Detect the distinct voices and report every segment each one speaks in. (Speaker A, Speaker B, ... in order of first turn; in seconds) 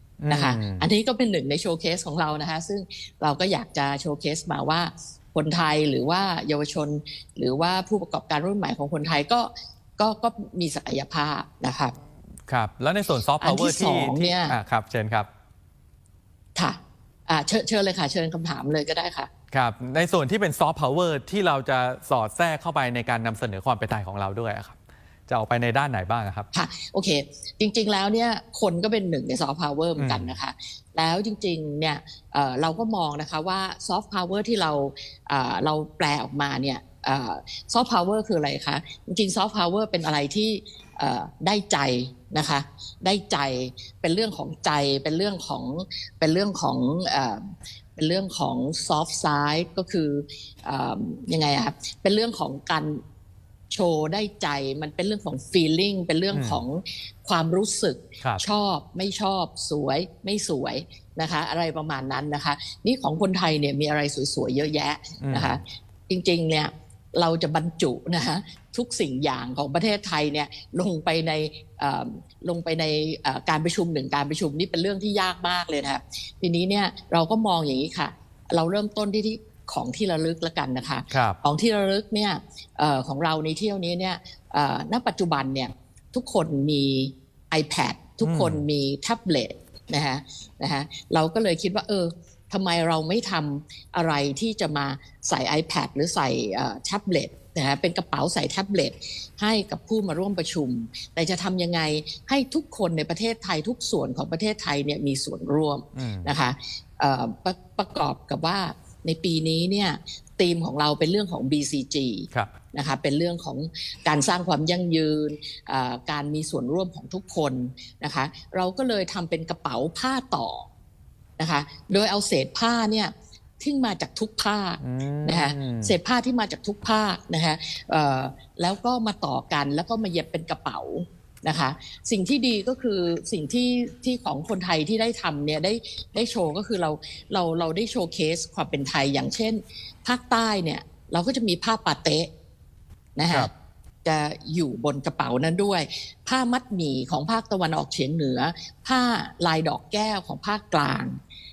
Speaker A: 0.2-0.9, 12.5-15.3, 19.5-24.8, 25.3-26.5, 30.0-30.3, 56.3-56.6, 65.2-65.6, 81.1-81.4, 88.2-88.6, 106.0-106.3, 124.8-126.0
Speaker B: 0.3-11.9, 13.4-14.6, 16.6-19.3, 26.5-53.0, 53.7-120.7, 121.4-142.3, 143.2-143.5, 144.0-151.2